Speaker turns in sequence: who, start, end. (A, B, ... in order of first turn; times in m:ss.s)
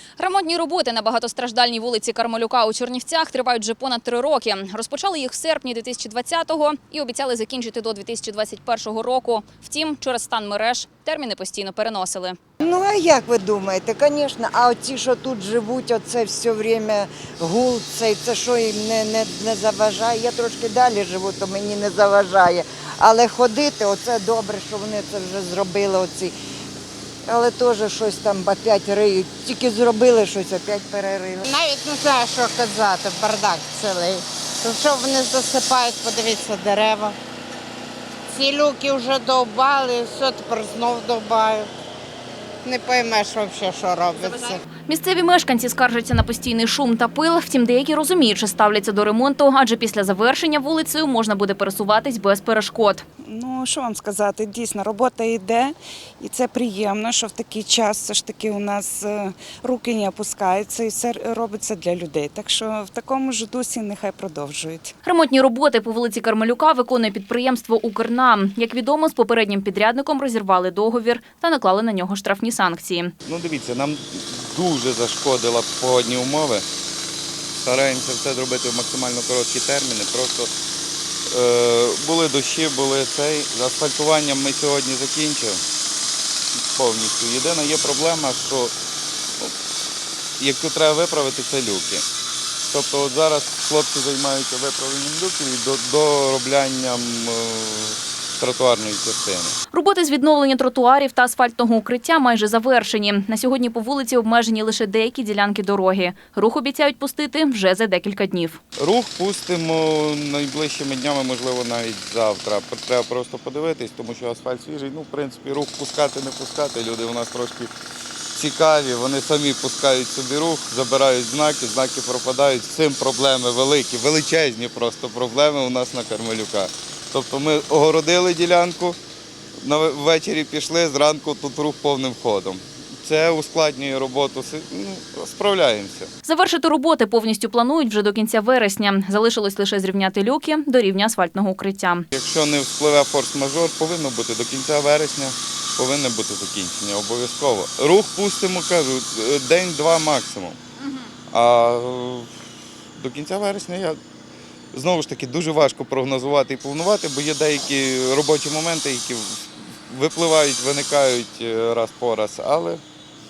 0:00.2-0:12.4 A
0:12.6-0:26.3 B
0:27.3-0:31.5 B
0:31.5-0:37.2 C
0:38.3-0:41.7 C
0:42.6-0:44.6 C
0:44.9-0:53.0 A
0:53.3-1:04.9 D
1:05.0-1:13.1 A
1:13.2-1:16.7 E
1:17.6-1:20.5 E
1:21.3-1:25.6 E
1:26.6-1:28.7 E
1:30.4-1:32.1 E
1:32.6-1:39.6 E
1:39.7-1:48.6 A
1:48.8-1:57.7 E
1:58.4-2:09.0 E
2:09.6-2:16.1 E
2:16.2-2:22.1 A
2:22.1-2:30.6 E
2:31.3-2:32.3 E
2:33.0-2:34.0 E
2:34.7-2:42.8 E